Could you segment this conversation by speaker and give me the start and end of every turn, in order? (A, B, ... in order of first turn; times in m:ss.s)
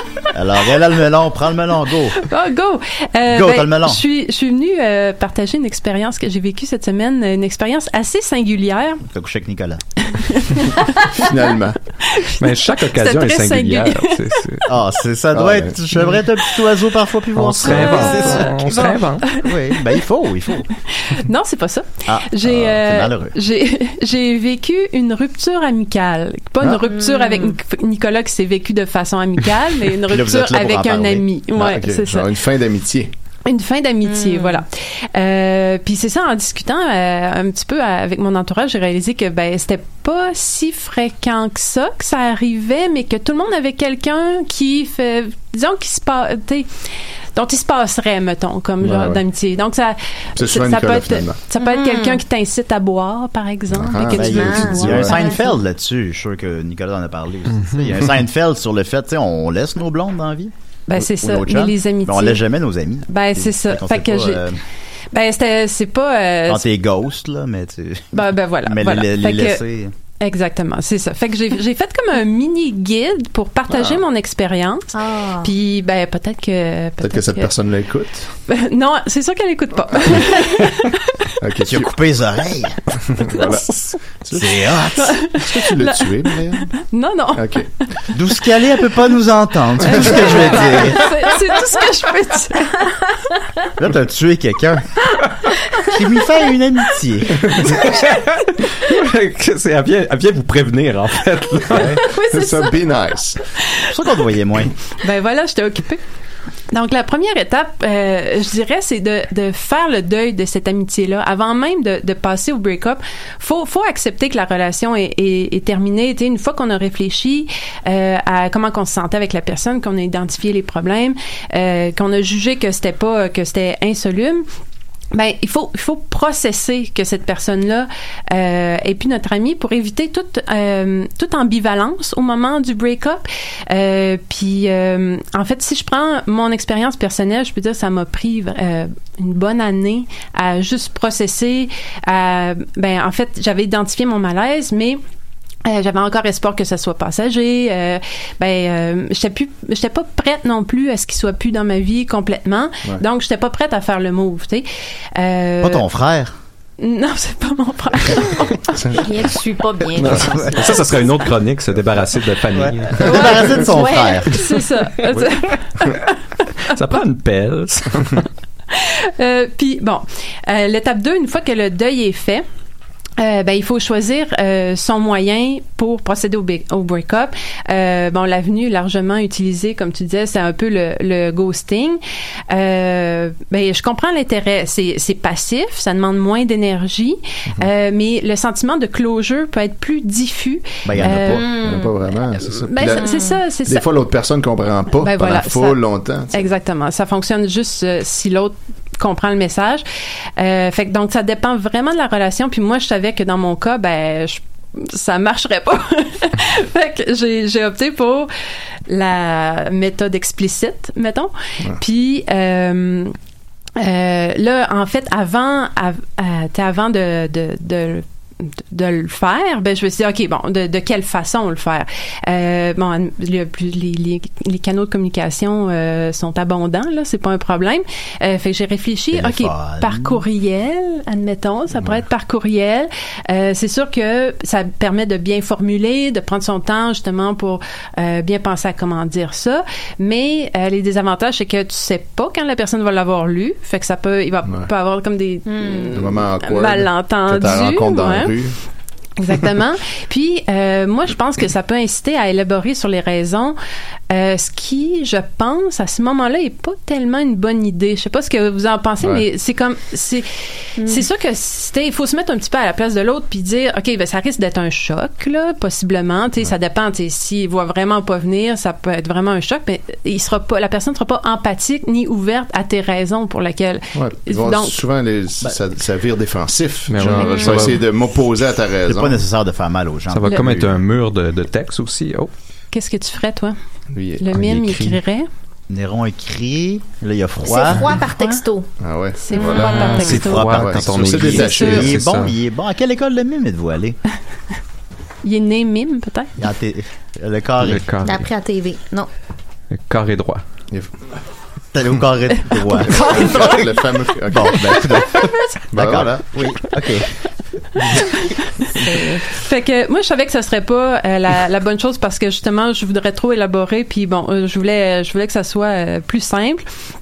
0:00.3-0:02.2 A
0:02.2-0:09.0 B
0:03.3-0:04.0 A
0:09.1-0:09.8 A
0:10.1-0:11.4 B
0:11.1-0:11.8 C
0:12.0-0:14.4 B
0:12.4-0:14.6 D
0:14.7-0:18.9 A
0:15.3-0:15.8 C
0:17.4-0:19.2 D
0:17.7-0:19.5 B
0:19.4-0:20.7 A
0:21.0-0:32.3 B
0:22.1-0:23.4 A
0:26.6-0:26.9 C
0:26.9-0:27.5 E
0:30.1-0:31.3 A
0:31.5-0:33.1 C
0:33.4-0:46.7 B
0:34.0-0:34.6 E
0:47.4-0:55.3 B
0:48.8-0:49.2 C
0:50.4-0:51.4 C
0:51.6-0:52.2 E
0:53.7-0:55.1 C
0:54.1-0:55.5 E
0:54.2-1:04.6 A
0:57.6-0:57.9 D
1:00.9-1:02.4 B
1:03.1-1:04.5 B
1:05.1-1:06.6 B
1:06.5-1:09.9 A
1:08.1-1:09.6 B
1:10.2-1:14.9 B
1:13.7-1:14.0 C
1:14.9-1:15.5 E
1:15.4-1:17.5 B
1:17.0-1:18.3 C
1:18.5-1:21.3 B
1:19.9-1:20.6 C
1:21.4-1:21.9 C
1:21.6-1:22.8 A
1:23.0-1:24.7 C
1:23.4-1:24.0 B
1:24.3-1:25.2 A
1:25.0-1:27.6 B
1:25.3-1:26.7 C
1:27.4-1:27.7 C
1:28.1-1:31.1 A
1:29.8-1:33.2 B
1:33.8-1:34.9 A
1:35.8-1:37.6 A
1:37.7-1:42.0 D
1:41.7-1:43.4 C
1:42.2-1:42.7 E
1:43.9-1:44.7 A
1:45.0-1:46.0 B
1:46.7-2:04.5 B
2:05.1-2:25.0 B
2:25.6-2:35.8 B
2:35.6-2:36.3 A
2:36.8-2:39.0 B
2:38.7-2:39.1 C
2:38.9-2:40.7 E
2:40.0-2:40.3 C
2:40.2-2:40.5 A
2:40.5-2:43.4 D
2:42.5-2:44.4 A
2:43.1-2:46.7 B
2:45.0-2:45.4 D
2:46.7-2:48.3 D
2:48.7-2:52.4 B
2:53.2-3:11.6 B
3:10.8-3:11.4 A
3:11.0-3:13.1 C
3:11.3-3:11.9 E
3:12.4-3:13.8 B
3:12.9-3:13.4 E
3:13.6-3:16.5 C
3:15.0-3:15.8 B
3:16.3-3:19.8 B
3:20.4-3:28.3 B
3:28.9-3:33.2 B
3:33.8-4:08.4 B
3:49.1-3:50.2 A
3:51.7-3:52.0 C
4:05.5-4:06.0 E
4:05.9-4:08.6 C
4:09.2-4:13.6 B
4:14.1-4:20.3 B
4:20.8-4:21.0 E
4:20.8-4:34.8 B
4:34.0-4:39.2 C
4:36.9-4:37.9 D
4:37.2-4:37.6 E
4:38.9-4:40.8 A
4:40.1-4:42.3 D
4:42.7-4:43.6 B
4:43.9-4:45.0 C
4:44.2-4:45.3 B
4:45.7-4:47.9 A
4:47.4-4:48.7 E
4:48.2-4:48.4 B
4:48.8-4:52.0 C
4:49.2-4:50.5 B
4:49.3-4:49.7 E
4:49.5-4:52.3 D
4:50.1-4:54.0 A
4:55.2-4:56.3 B
4:56.4-4:57.8 A
4:57.6-4:58.3 D
4:58.0-4:59.1 E
4:59.7-5:00.4 D
5:01.7-5:03.6 A
5:02.8-5:03.7 B
5:02.8-5:05.0 C
5:04.3-5:07.1 A
5:05.1-5:05.6 B
5:05.7-5:06.4 C
5:07.9-5:08.4 B
5:08.9-5:09.2 E
5:09.0-5:16.6 B